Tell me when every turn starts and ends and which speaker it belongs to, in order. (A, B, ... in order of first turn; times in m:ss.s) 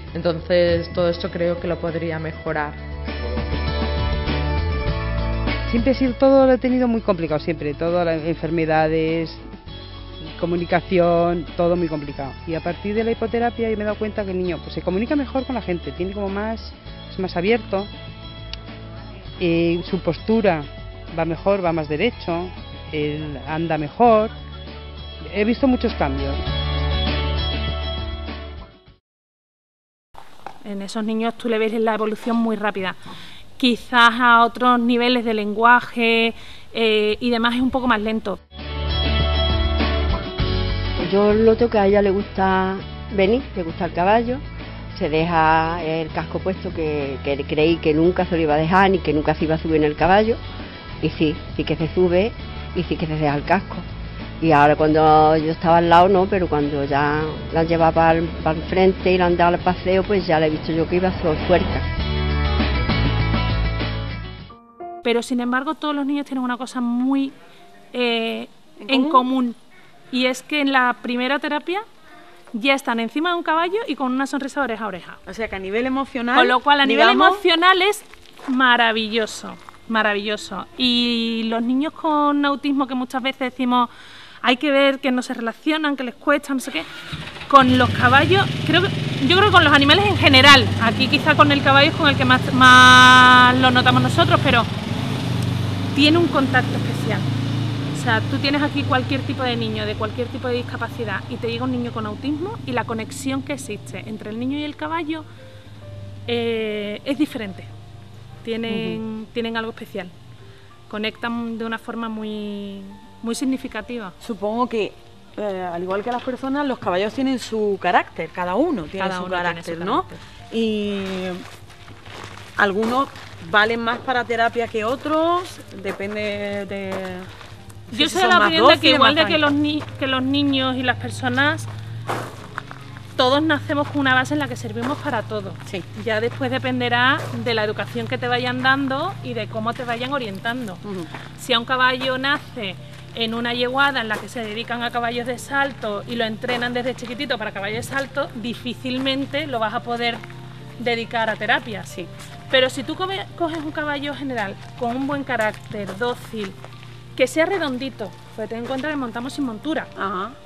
0:00.1-0:02.8 A
0:05.7-0:09.4 B
0:10.2-0:17.9 B
0:19.4-0:24.3 B
0:25.2-0:26.4 B
0:30.6-0:33.0 C
0:33.6-0:38.4 C
0:41.0-0:50.4 D
0:51.0-0:53.9 D
0:54.4-1:01.9 D
1:05.0-1:07.3 C
1:07.9-1:09.6 C
1:08.8-1:09.2 E
1:10.1-1:11.8 C
1:12.5-1:15.2 C
1:15.3-1:17.4 E
1:16.4-1:23.9 C
1:24.4-1:26.9 C
1:27.5-1:34.7 C
1:35.9-1:37.2 C
1:38.0-1:45.2 C
1:46.3-1:47.7 C
1:48.4-1:50.1 C
1:48.7-1:49.0 E
1:50.9-1:54.2 C
1:54.2-2:01.4 E
1:59.0-2:00.2 C
2:02.6-2:07.3 E
2:07.9-2:09.4 E
2:07.9-2:11.7 C
2:13.2-2:20.8 C
2:20.8-2:21.1 E
2:21.4-2:30.2 C
2:30.8-2:31.9 C
2:32.5-2:36.6 C
2:37.2-2:39.9 C
2:40.0-2:40.4 E